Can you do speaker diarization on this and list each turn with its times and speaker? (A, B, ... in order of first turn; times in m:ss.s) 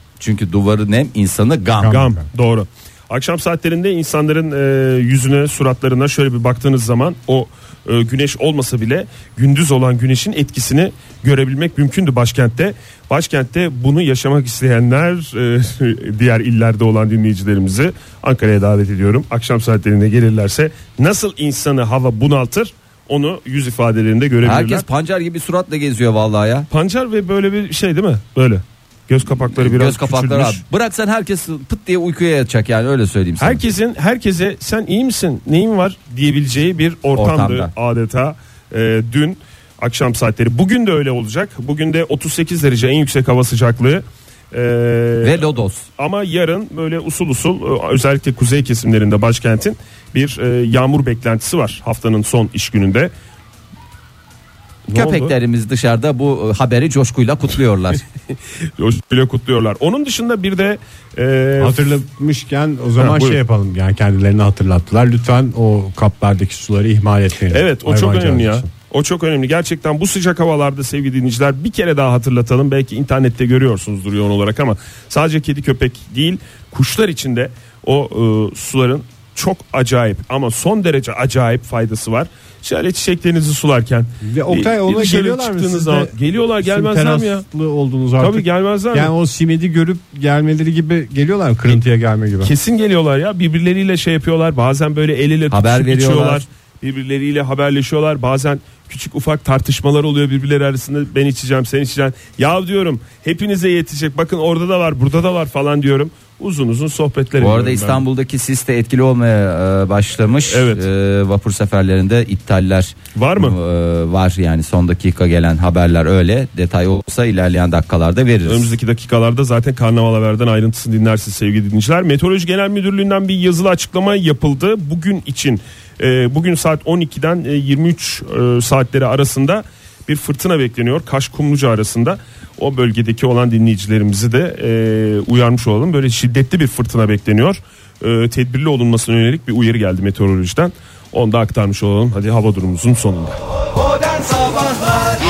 0:00.2-0:02.0 A
0:01.8-0:02.3 B
0:01.9-0:24.8 C
0:24.4-0:26.7 A
0:26.7-0:30.6 C
0:29.6-0:33.6 A
0:33.4-0:53.1 C
0:37.1-0:37.7 A
0:45.2-0:45.8 A
0:54.9-0:55.3 C
0:54.9-0:58.0 A
0:58.8-1:01.9 C
1:01.6-1:08.7 B
1:03.0-1:03.4 C
1:07.5-1:27.4 C
1:24.2-1:32.5 B
1:28.2-1:29.1 C
1:32.4-1:48.0 C
1:35.5-1:36.4 A
1:47.4-1:58.7 A
1:50.5-1:50.8 C
1:53.1-1:53.6 C
1:58.4-2:23.4 C